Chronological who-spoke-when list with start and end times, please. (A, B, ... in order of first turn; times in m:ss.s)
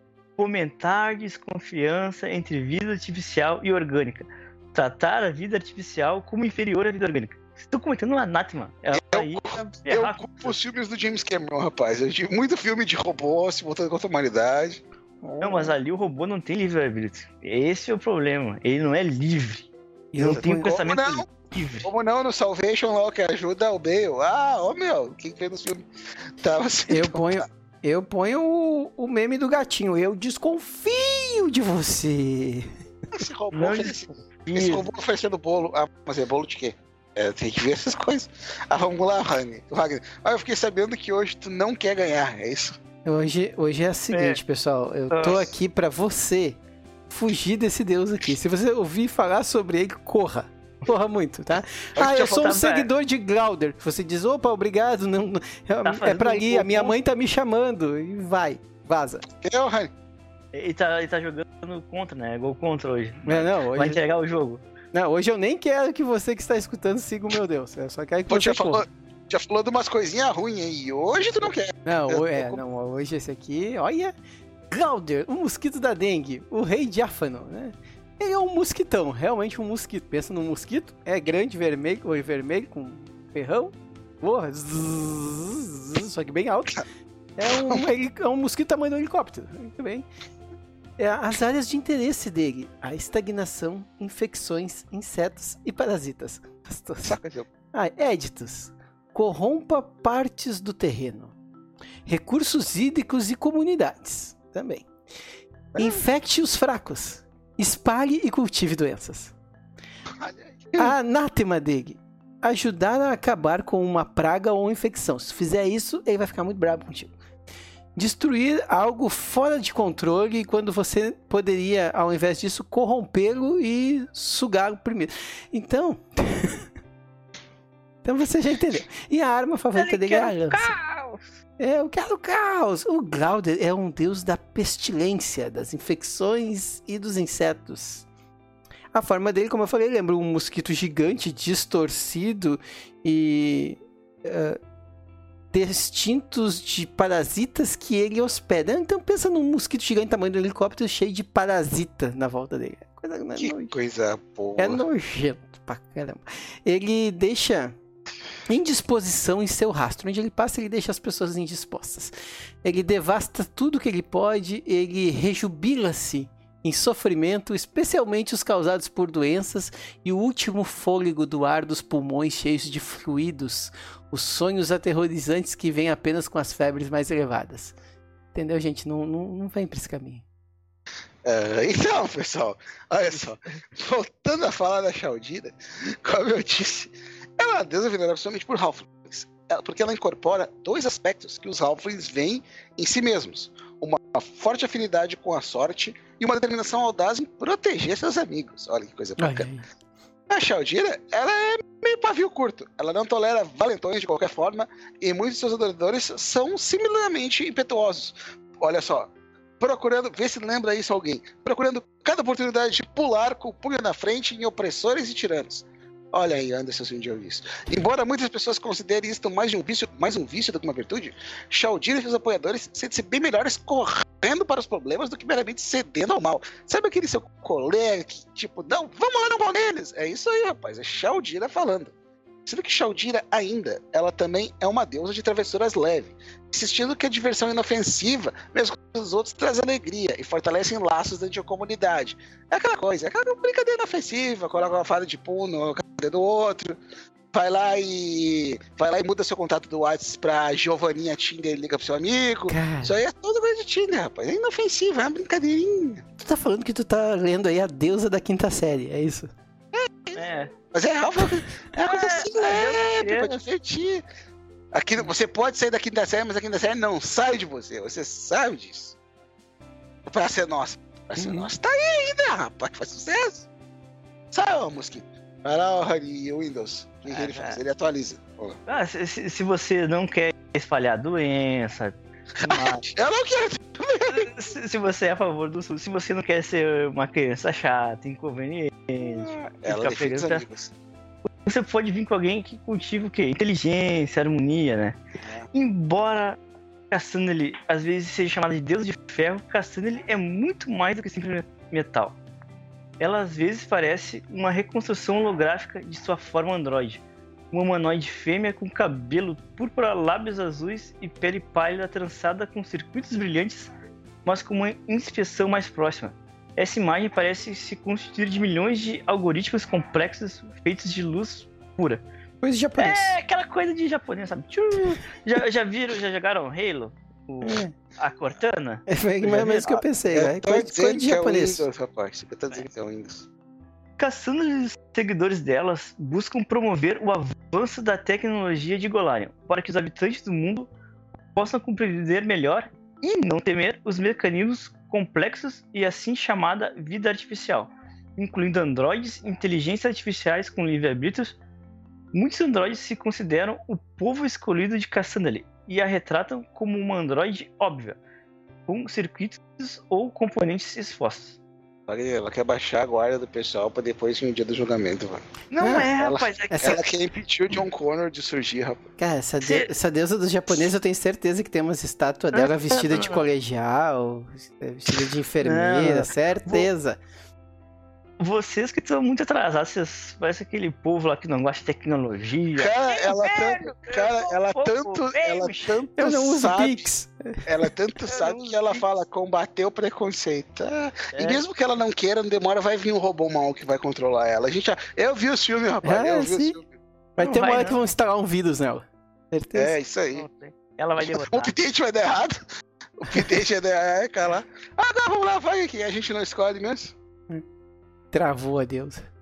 0:00.4-0:10.5 A
0:08.9-0:14.8 B
0:15.2-0:15.7 C
0:15.4-0:21.9 A
0:20.1-0:20.8 C
0:20.2-0:21.3 B
0:21.8-0:25.8 B
0:26.4-0:27.4 B
0:26.9-0:32.7 C
0:33.1-0:42.8 B
0:33.5-0:34.9 A
0:43.0-0:59.2 C
0:44.1-0:44.4 A
0:45.1-0:45.5 A
0:52.0-0:52.4 B
0:52.1-0:52.9 A
0:55.8-0:56.9 A
0:59.4-0:59.9 B
1:00.5-1:04.6 A
1:03.3-1:04.0 C
1:04.9-1:08.8 C
1:08.3-1:12.6 B
1:11.8-1:14.1 C
1:14.7-1:26.8 C
1:27.4-1:30.1 C
1:31.0-1:37.2 C
1:37.1-1:37.5 B
1:37.7-1:41.4 C
1:42.1-1:44.9 C
1:45.7-1:46.0 B
1:45.8-1:49.3 C
1:50.2-1:51.0 B
1:50.8-1:57.1 C
1:58.0-2:06.6 C
2:08.0-2:10.7 C
2:09.8-2:11.2 A
2:11.6-2:18.1 C
2:18.9-2:24.6 C
2:25.5-2:33.7 C
2:33.4-2:34.8 B
2:34.6-2:37.8 C
2:38.5-2:57.8 C
2:58.3-3:00.2 C
3:01.2-3:19.5 B
3:19.2-3:19.7 C
3:20.3-3:51.9 B
3:52.5-4:06.8 B
4:07.3-4:16.0 B
4:12.5-4:12.9 C
4:16.2-4:19.3 C
4:19.7-4:24.0 B
4:20.2-4:20.5 A
4:21.9-4:23.4 A
4:24.7-4:29.0 B
4:30.0-4:33.5 B
4:34.3-4:38.6 B
4:37.1-4:37.6 A
4:38.7-4:42.8 A
4:42.4-4:44.3 B
4:44.1-4:50.4 A
4:49.0-4:50.7 B
4:51.4-4:55.0 A
4:55.2-4:55.5 B
4:55.5-4:56.4 A
4:56.9-5:02.2 A
5:03.0-5:13.7 A
5:14.2-5:22.0 A
5:22.4-5:23.1 C
5:22.8-5:29.8 A
5:27.4-5:27.7 C
5:28.9-5:31.7 C
5:30.1-5:33.3 B
5:34.0-5:40.7 A
5:41.4-5:51.4 A
5:52.1-5:58.0 A
5:58.7-6:01.4 A
6:01.9-6:05.2 B
6:05.5-6:06.8 A
6:05.6-6:05.9 C
6:05.9-6:08.8 B
6:06.5-6:06.8 C
6:09.0-6:17.0 C
6:09.4-6:09.7 A
6:12.3-6:13.2 A
6:15.4-6:16.7 A
6:18.2-6:25.8 A
6:22.6-6:26.9 B
6:26.0-6:27.4 C
6:27.5-6:36.7 B
6:28.1-6:28.8 A
6:31.1-6:31.4 A
6:35.8-6:36.6 C
6:37.2-6:39.8 C
6:37.2-6:37.8 A
6:39.6-6:40.3 B
6:40.2-6:41.5 A
6:41.0-6:42.4 B
6:43.0-6:46.9 B
6:48.1-6:49.0 C